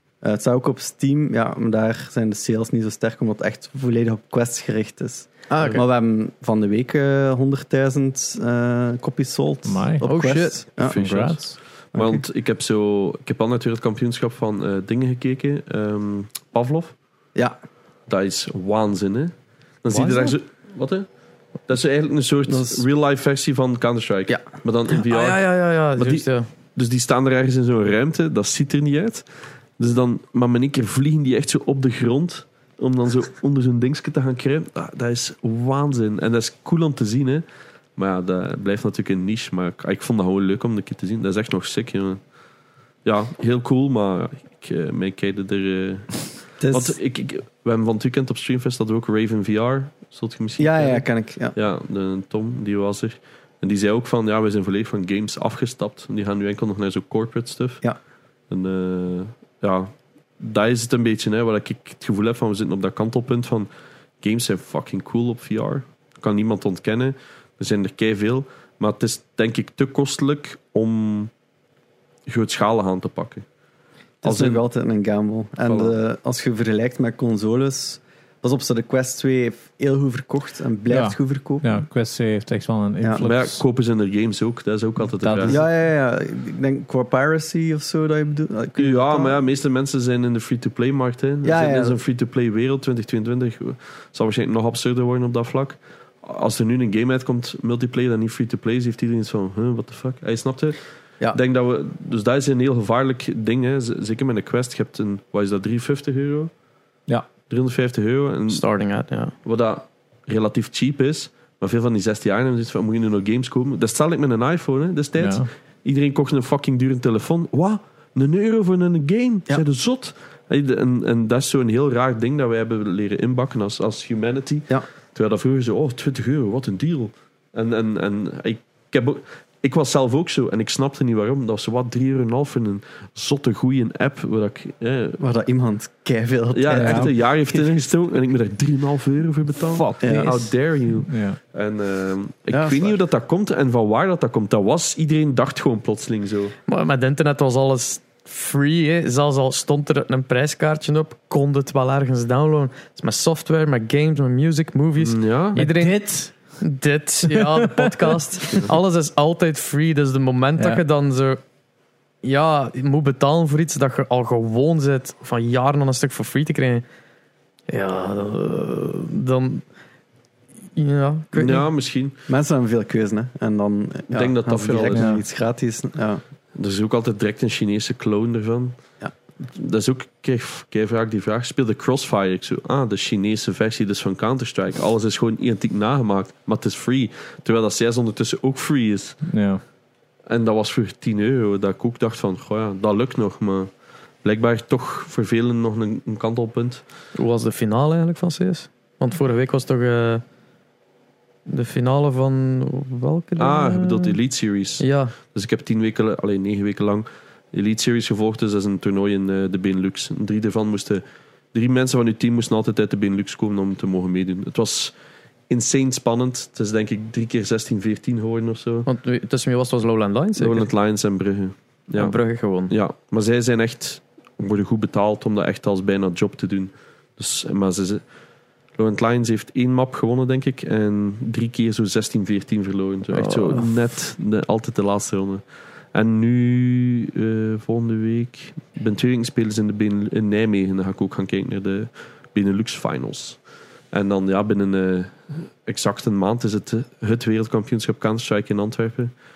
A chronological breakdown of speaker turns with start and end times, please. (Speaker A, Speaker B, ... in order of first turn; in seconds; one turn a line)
Speaker A: 0.2-11.3
Speaker B: 5.5-5.8
Speaker C: 9.7-10.1
Speaker B: 10.0-10.6
Speaker C: 10.8-11.6
Speaker D: 10.9-11.4
Speaker A: 11.9-12.2
Speaker D: 11.9-16.9
Speaker D: 18.1-21.1
Speaker B: 19.9-20.2
Speaker D: 21.7-25.4
Speaker A: 22.5-22.8
Speaker B: 24.9-26.5
Speaker D: 26.0-29.3
Speaker D: 29.8-37.5
Speaker D: 38.0-42.2
Speaker D: 43.0-57.8
Speaker A: 46.6-47.0
Speaker A: 50.6-51.5
Speaker D: 58.5-63.7
Speaker D: 64.2-71.3
Speaker D: 72.3-73.5
Speaker A: 74.2-81.7
Speaker D: 74.2-74.6
Speaker D: 75.7-76.0
Speaker C: 80.9-83.6
Speaker D: 83.2-85.6
Speaker C: 85.2-85.6
Speaker A: 85.5-89.4
Speaker D: 88.8-100.8
Speaker A: 91.4-92.0
Speaker D: 101.3-106.5
Speaker D: 107.5-108.6
Speaker B: 108.5-109.3
Speaker D: 109.5-135.2
Speaker C: 115.2-115.5
Speaker A: 135.2-137.6
Speaker D: 136.5-146.6
Speaker C: 139.7-140.5
Speaker A: 140.0-140.4
Speaker C: 141.1-141.4
Speaker A: 142.5-143.0
Speaker B: 146.7-161.4
Speaker D: 155.0-155.6
Speaker C: 155.6-156.3
Speaker C: 157.3-158.5
Speaker B: 162.2-166.8
Speaker B: 167.7-169.6
Speaker B: 170.8-171.7
Speaker D: 171.3-172.1
Speaker A: 172.3-176.2
Speaker D: 174.1-175.1
Speaker C: 174.9-175.2
Speaker D: 176.6-178.8
Speaker D: 179.4-189.2
Speaker C: 189.2-189.6
Speaker D: 190.3-193.7
Speaker D: 194.2-196.8
Speaker B: 197.2-200.2
Speaker B: 201.5-204.2
Speaker D: 203.4-214.9
Speaker B: 204.8-205.1
Speaker D: 215.5-218.9
Speaker B: 218.9-220.7
Speaker D: 220.4-222.2
Speaker B: 222.0-222.7
Speaker D: 222.7-228.0
Speaker D: 228.8-235.4
Speaker B: 233.1-233.7
Speaker D: 235.9-243.4
Speaker D: 243.9-249.1